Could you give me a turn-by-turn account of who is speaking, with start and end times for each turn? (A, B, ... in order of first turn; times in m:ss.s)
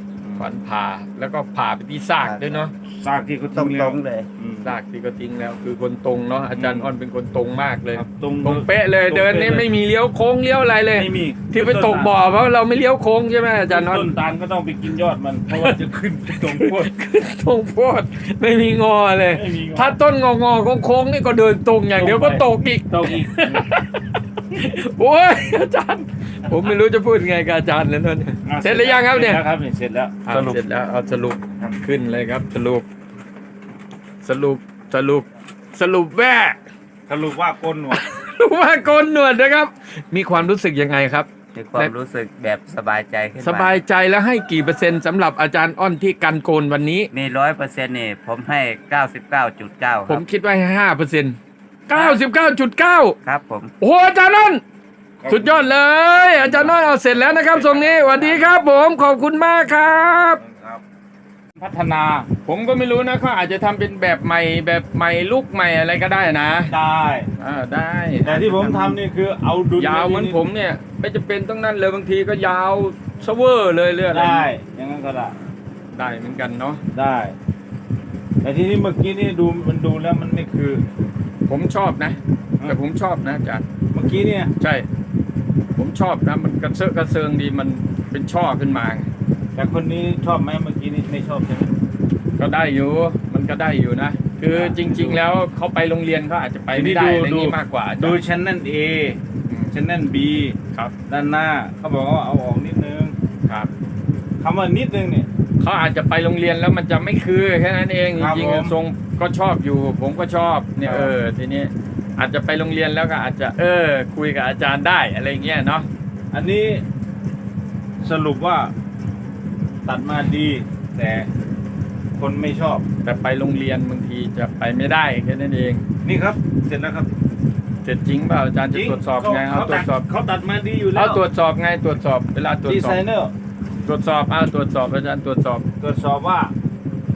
0:00.2-0:00.5 A
0:00.4-0:02.7 B
0:02.2-0:02.6 C
0:02.9-0:04.8 A
0:03.5-0:04.3 C
0:04.6-0:14.1 B
0:06.6-0:06.9 A
0:07.9-0:09.7 A
0:11.0-0:12.1 A
0:13.7-0:16.9 A
0:15.5-0:15.8 B
0:16.5-0:29.4 B
0:19.3-0:20.0 A
0:22.0-0:23.7 A
0:28.5-0:30.6 A
0:30.3-0:32.8 B
0:34.2-0:36.6 B
0:37.1-0:38.0 A
0:37.9-0:41.9 B
0:41.5-0:43.8 C
0:43.4-0:47.1 B
0:47.1-0:50.2 C
0:50.1-0:51.4 B
0:51.9-0:53.2 B
0:51.9-0:52.2 C
0:53.2-0:53.7 C
0:53.8-0:54.6 B
0:55.2-0:58.5 A
0:55.3-1:00.4 B
1:00.4-1:00.8 A
1:01.6-1:02.3 A
1:02.4-1:06.7 B
1:06.7-1:07.3 A
1:07.4-1:09.0 B
1:08.2-1:10.4 A
1:09.8-1:14.5 B
1:14.1-1:15.4 A
1:15.9-1:16.8 B
1:16.9-1:17.4 A
1:18.4-1:20.8 A
1:21.5-1:23.6 B
1:23.9-1:24.5 A
1:24.6-1:24.9 B
1:25.8-1:29.1 B
1:29.6-1:31.7 A
1:32.4-1:38.2 B
1:34.5-1:35.2 A
1:36.7-1:39.2 A
1:39.5-1:39.8 B
1:39.7-1:40.6 A
1:41.1-1:43.2 A
1:44.4-1:45.3 A
1:45.6-1:55.9 B
1:48.2-1:48.8 A
1:50.8-1:51.2 A
1:56.3-1:56.8 A
1:58.0-1:58.7 A
1:59.8-2:01.3 A
2:02.2-2:02.8 A
2:03.0-2:05.8 B
2:06.0-2:07.1 A
2:07.8-2:10.0 B
2:08.7-2:11.2 A
2:10.9-2:13.0 B
2:12.6-2:13.3 A
2:13.8-2:15.6 B
2:15.8-2:16.5 A